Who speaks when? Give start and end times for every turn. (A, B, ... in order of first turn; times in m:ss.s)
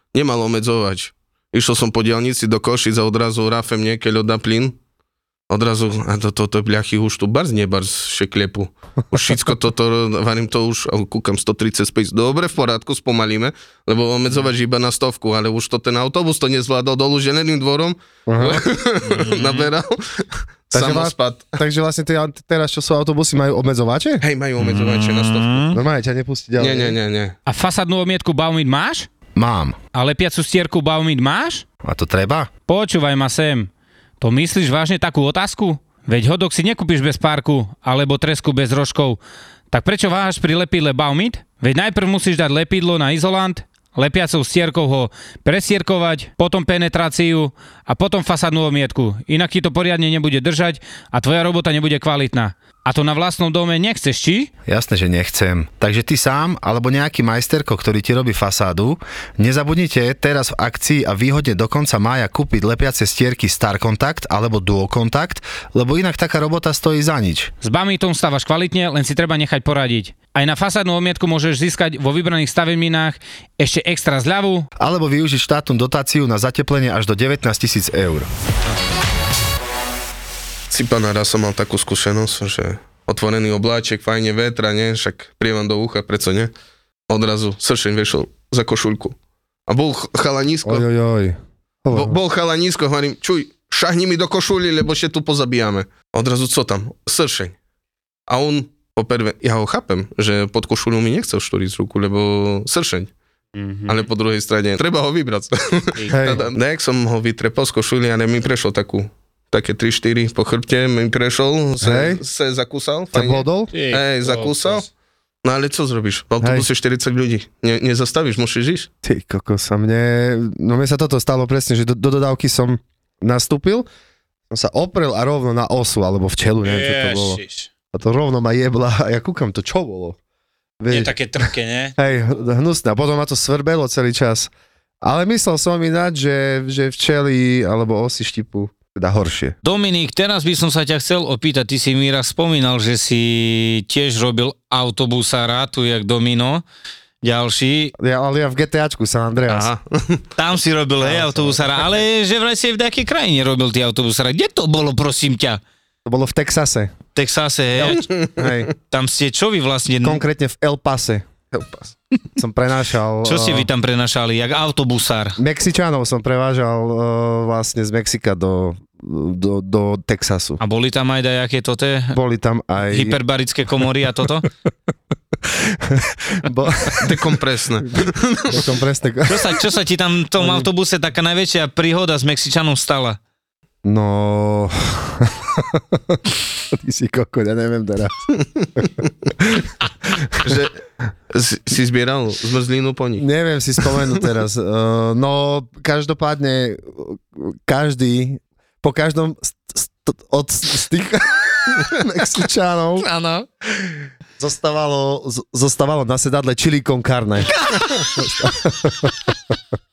0:00.1-0:04.8 A
0:05.5-0:21.6 A
0:18.3-0:18.6 B
0:19.0-0:19.7 C
0:20.7-0:24.2 B
0:24.2-0:25.7 A
0:24.6-0:25.8 C
0:25.7-0:27.0 B
0:26.6-0:27.3 A
0:27.5-0:29.1 C
0:29.4-0:29.8 B
0:29.9-0:31.6 C
0:31.8-0:32.5 B
0:32.7-0:33.7 C
0:34.2-0:39.2 C
0:39.7-0:54.5 C
0:54.6-1:07.5 B
1:07.6-1:14.6 C
1:14.8-1:18.3 B
1:20.7-1:26.5 A
1:27.1-1:29.2 A
1:29.7-1:30.8 A
1:30.6-1:32.2 B
1:31.9-1:37.6 A
1:38.3-1:43.1 A
1:43.5-1:44.0 C
1:43.9-1:54.8 A
1:45.9-1:46.2 C
1:46.1-1:46.4 B
1:51.8-1:52.2 B
1:53.1-1:53.7 B
1:53.7-1:54.8 C
1:55.4-1:58.9 A
1:56.4-1:56.7 B
1:59.0-2:03.8 B
2:04.5-2:07.4 B
2:06.6-2:07.7 C
2:07.9-2:10.2 B
2:10.8-2:14.5 B
2:10.9-2:11.9 C
2:15.0-2:19.6 B
2:19.6-2:26.6 C
2:27.2-2:27.9 C
2:28.0-2:29.7 B
2:29.5-2:30.2 A
2:30.4-2:35.6 C
2:31.0-2:31.6 B
2:36.0-2:36.9 B
2:37.1-2:38.1 C
2:37.8-2:38.7 B
2:38.9-2:40.2 C
2:40.0-2:41.3 B
2:41.5-2:41.9 A
2:42.4-2:43.7 B
2:43.2-2:45.4 C
2:45.4-2:50.6 B
2:50.6-2:52.2 C
2:52.1-2:53.2 B
2:52.9-2:54.4 C
2:55.5-2:57.1 B
2:56.9-2:58.6 A
2:58.5-2:59.7 B
2:59.2-3:03.2 C
3:00.4-3:00.7 B
3:03.8-3:10.5 B
3:10.4-3:13.2 A
3:13.2-3:23.1 B
3:23.1-3:23.4 C
3:23.7-3:29.3 B